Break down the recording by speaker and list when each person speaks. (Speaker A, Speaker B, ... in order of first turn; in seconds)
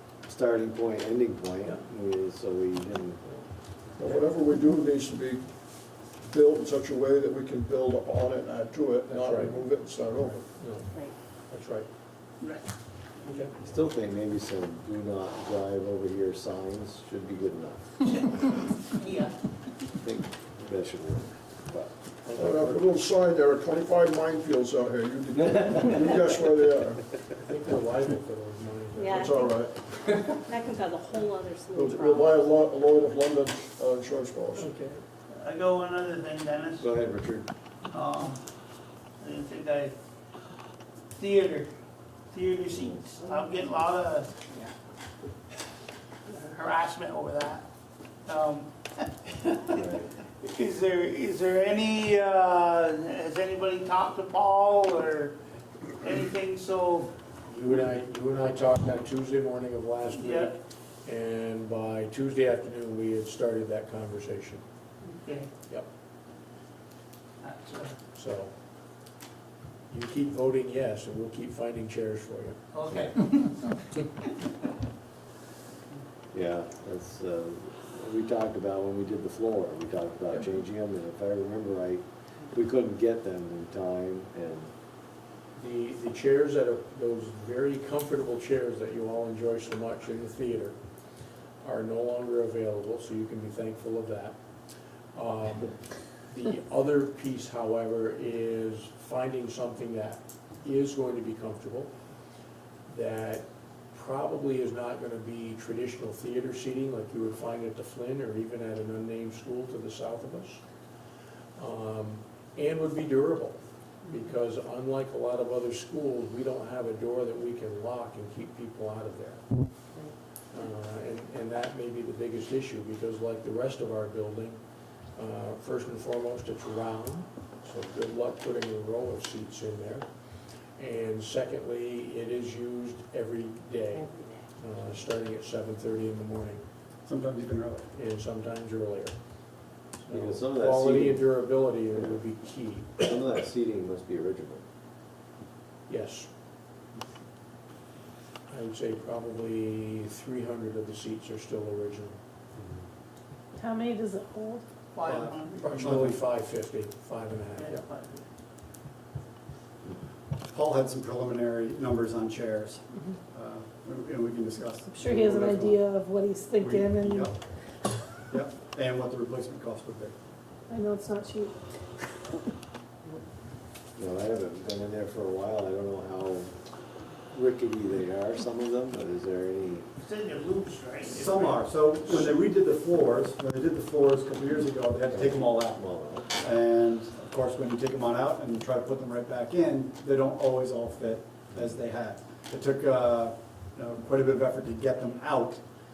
Speaker A: 0.2-3.2, 13.6-18.0, 20.0-21.9, 36.8-37.5, 49.7-50.0, 76.3-84.7, 140.1-141.3, 141.9-142.2, 143.0-144.6, 174.0-176.5, 177.3-179.9, 185.0-186.3
Speaker B: 4.0-5.5, 6.0-10.4, 22.4-27.0, 29.2-29.7, 31.8-34.7
Speaker C: 9.1-9.6, 10.4-10.9, 11.5-11.9, 13.3-13.5, 22.2-22.9, 27.4-29.4, 34.6-35.0, 57.5-64.6, 68.1-68.5, 69.9-72.6, 85.6-90.8, 91.6-94.4, 95.1-95.7, 96.3-101.9, 102.9-110.6, 111.6-119.4, 120.5-124.6, 125.2-130.1, 130.8-136.6, 137.9-139.1, 140.0-143.0, 145.9-146.3, 148.5-152.2, 155.6-157.8
Speaker D: 18.1-19.4, 35.3-36.9, 37.9-38.4, 39.2-40.0, 41.2-41.7, 42.3-44.7, 46.3-47.7, 48.3-55.4, 56.0-57.1, 60.1-60.5, 65.0-65.5, 67.4-68.0, 72.7-73.8, 154.9-156.1, 157.6-158.2, 180.0-181.7
Speaker E: 29.0-32.5, 114.0-114.3, 133.9-134.4
Speaker F: 137.1-137.9, 155.0-156.2, 160.5-165.8, 166.6-167.3, 168.3-170.1, 181.1-185.8, 186.4-195.6
Speaker G: 153.6-154.6, 164.9-167.3, 170.7-171.6